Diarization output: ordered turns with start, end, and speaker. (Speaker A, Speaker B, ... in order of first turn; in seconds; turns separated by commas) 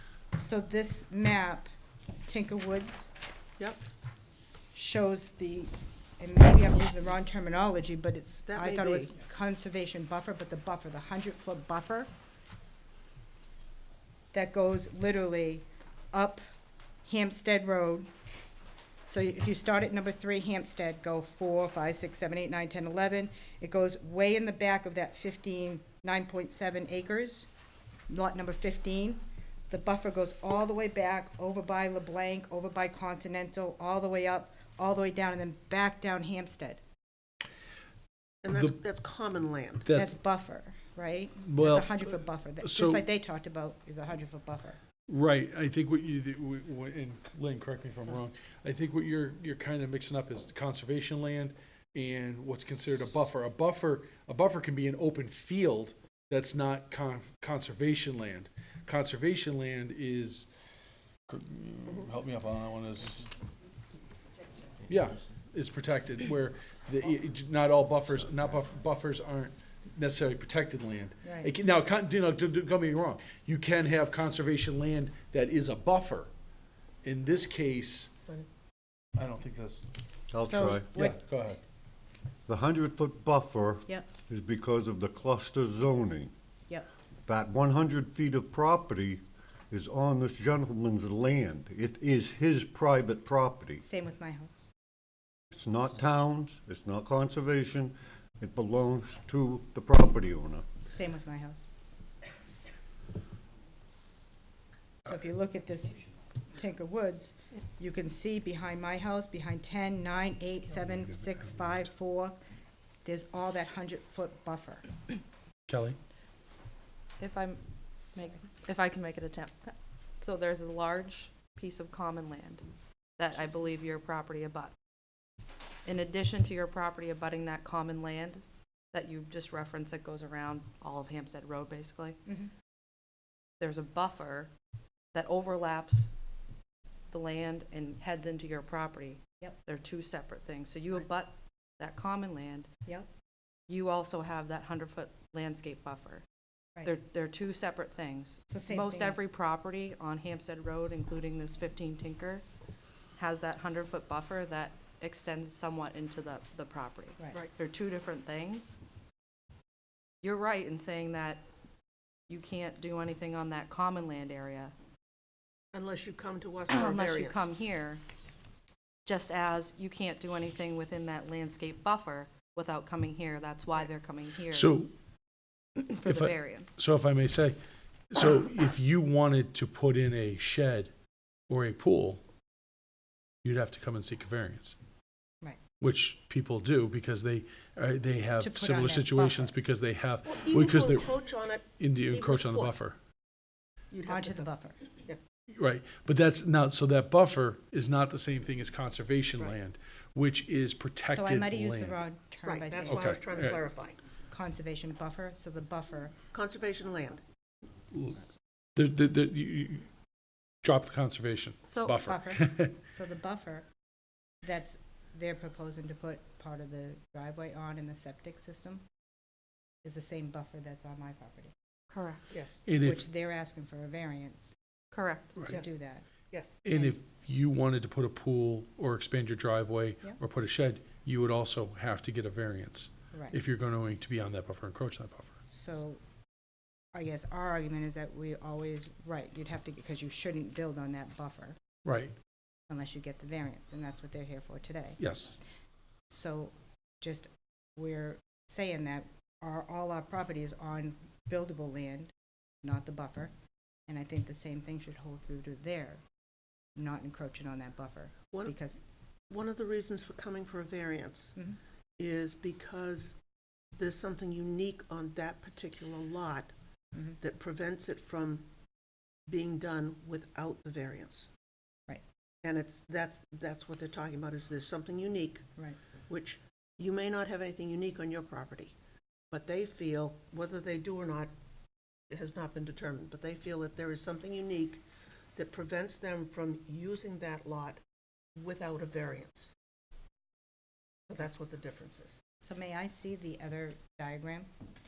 Speaker A: 0.3-1.7, Speaker A: 2.3-3.1, Speaker A: 4.7-12.1, Speaker B: 8.4-9.1, Speaker A: 14.3-16.4, Speaker A: 17.1-18.1, Speaker A: 19.1-27.5, Speaker A: 28.1-36.8, Speaker B: 38.4-39.9, Speaker C: 39.9-40.2, Speaker A: 39.9-44.8, Speaker C: 41.4-43.0, Speaker C: 45.1-60.5, Speaker C: 61.3-63.3, Speaker C: 64.9-76.3, Speaker A: 71.2-71.5, Speaker C: 77.0-78.1, Speaker C: 79.2-79.9, Speaker A: 80.3-81.2, Speaker D: 80.3-80.9, Speaker C: 80.9-81.6, Speaker D: 82.5-86.3, Speaker D: 87.2-93.8, Speaker A: 93.8-94.7, Speaker D: 95.5-100.7, Speaker A: 100.9-101.7, Speaker A: 105.0-112.3, Speaker A: 113.0-114.9, Speaker C: 115.7-116.0, Speaker E: 117.2-117.6, Speaker E: 118.1-122.7, Speaker E: 123.2-124.7, Speaker E: 125.8-132.2, Speaker E: 133.6-134.5, Speaker E: 135.1-136.1, Speaker E: 137.1-142.7, Speaker E: 143.7-146.2, Speaker E: 146.8-152.4, Speaker A: 148.5-149.2, Speaker E: 153.2-158.8, Speaker E: 160.2-161.4, Speaker E: 162.3-164.8, Speaker B: 165.7-167.5, Speaker E: 166.7-168.0, Speaker E: 169.1-174.7, Speaker C: 174.5-174.9, Speaker E: 175.8-176.8, Speaker C: 176.1-177.6, Speaker C: 178.1-180.9, Speaker C: 181.5-182.2, Speaker C: 183.4-184.8, Speaker C: 185.8-191.1, Speaker A: 188.4-189.6, Speaker B: 190.2-192.7, Speaker C: 191.8-193.0, Speaker B: 193.9-195.2, Speaker A: 194.1-194.8, Speaker C: 195.5-202.1, Speaker A: 201.1-203.2, Speaker B: 202.4-204.0, Speaker C: 202.9-203.6, Speaker A: 204.3-206.1, Speaker B: 206.3-207.2, Speaker C: 207.9-209.9, Speaker C: 210.6-212.8, Speaker A: 212.0-213.7, Speaker A: 214.4-218.8, Speaker A: 219.8-221.5, Speaker E: 221.9-222.3, Speaker B: 222.3-222.6, Speaker C: 222.7-223.1, Speaker A: 222.8-224.5, Speaker E: 224.9-225.4, Speaker A: 225.5-226.1, Speaker B: 225.5-225.7, Speaker B: 226.3-226.6, Speaker C: 226.6-235.4, Speaker A: 226.7-227.0, Speaker A: 233.1-233.4, Speaker A: 235.5-236.0, Speaker A: 236.9-241.6, Speaker C: 241.8-242.1, Speaker A: 242.7-245.0, Speaker C: 245.0-245.4, Speaker A: 246.1-252.1, Speaker A: 252.6-253.3, Speaker A: 253.9-256.0, Speaker A: 256.8-258.8, Speaker B: 259.3-261.4, Speaker B: 262.0-263.2, Speaker B: 263.8-266.5, Speaker B: 267.2-268.4, Speaker B: 269.3-271.3, Speaker B: 272.4-275.5, Speaker B: 276.1-278.8, Speaker B: 279.3-281.3, Speaker B: 282.1-284.8, Speaker B: 285.4-287.8, Speaker B: 288.4-289.5, Speaker B: 291.1-292.2, Speaker A: 292.4-294.5